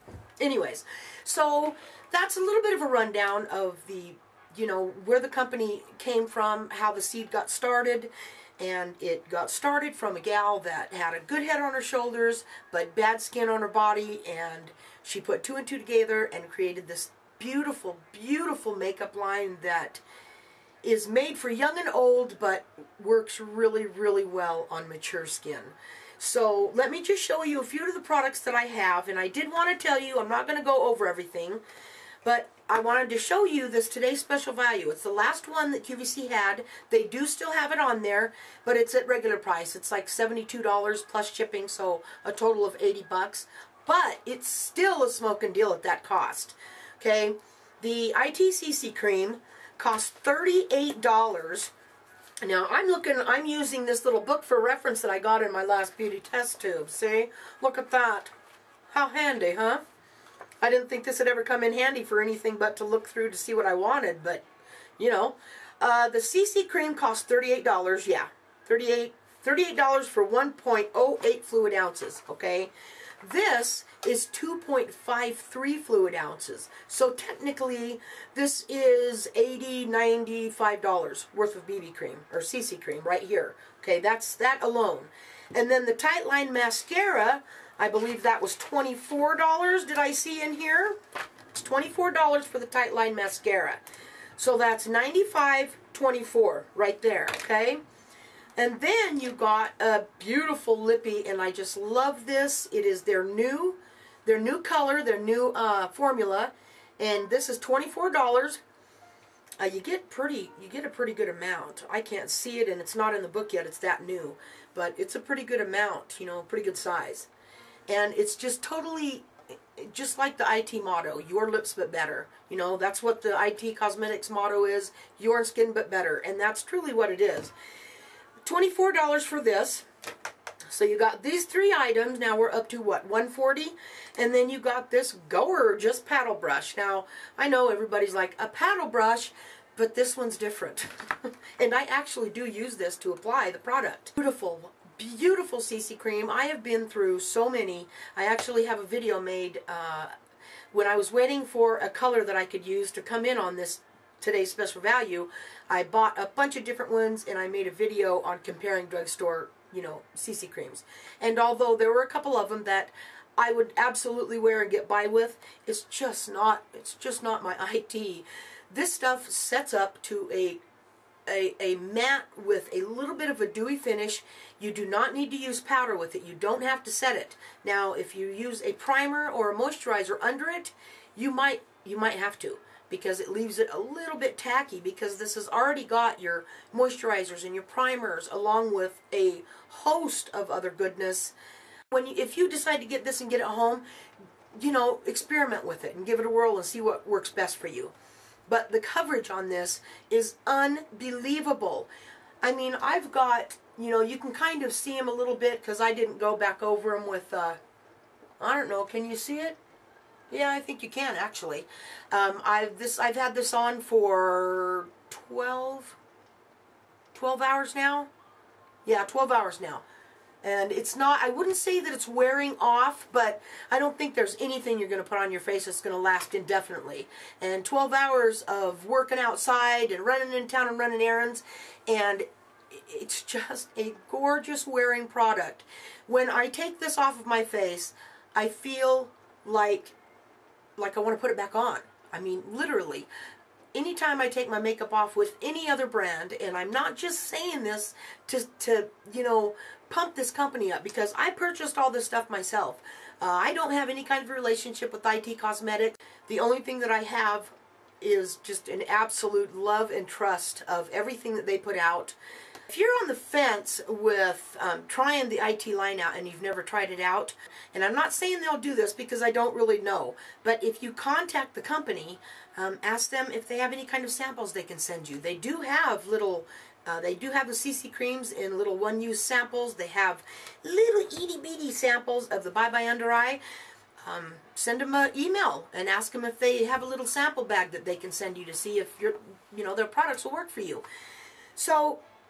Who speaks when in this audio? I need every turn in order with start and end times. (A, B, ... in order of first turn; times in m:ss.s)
0:00.4-0:20.0 A
0:20.8-0:31.6 A
0:32.2-0:51.7 A
0:52.4-0:58.3 A
0:58.9-0:59.8 A
1:00.6-1:04.4 A
1:05.0-1:31.0 A
1:31.5-1:33.8 A
1:34.4-1:37.8 A
1:38.6-1:48.6 A
1:49.6-1:57.3 A
1:57.9-2:07.5 A
2:08.4-2:09.9 A
2:10.7-2:30.1 A
2:30.7-2:50.6 A
2:51.3-3:11.3 A
3:11.9-3:13.8 A
3:14.6-3:17.9 A
3:18.5-3:21.9 A
3:22.4-3:27.6 A
3:28.4-3:29.6 A
3:30.3-3:36.0 A
3:37.1-3:38.1 A
3:38.8-3:39.8 A
3:40.4-4:00.0 A
4:00.8-4:03.1 A
4:03.7-4:22.2 A
4:22.7-4:43.4 A
4:44.0-4:50.8 A
4:51.6-4:52.0 A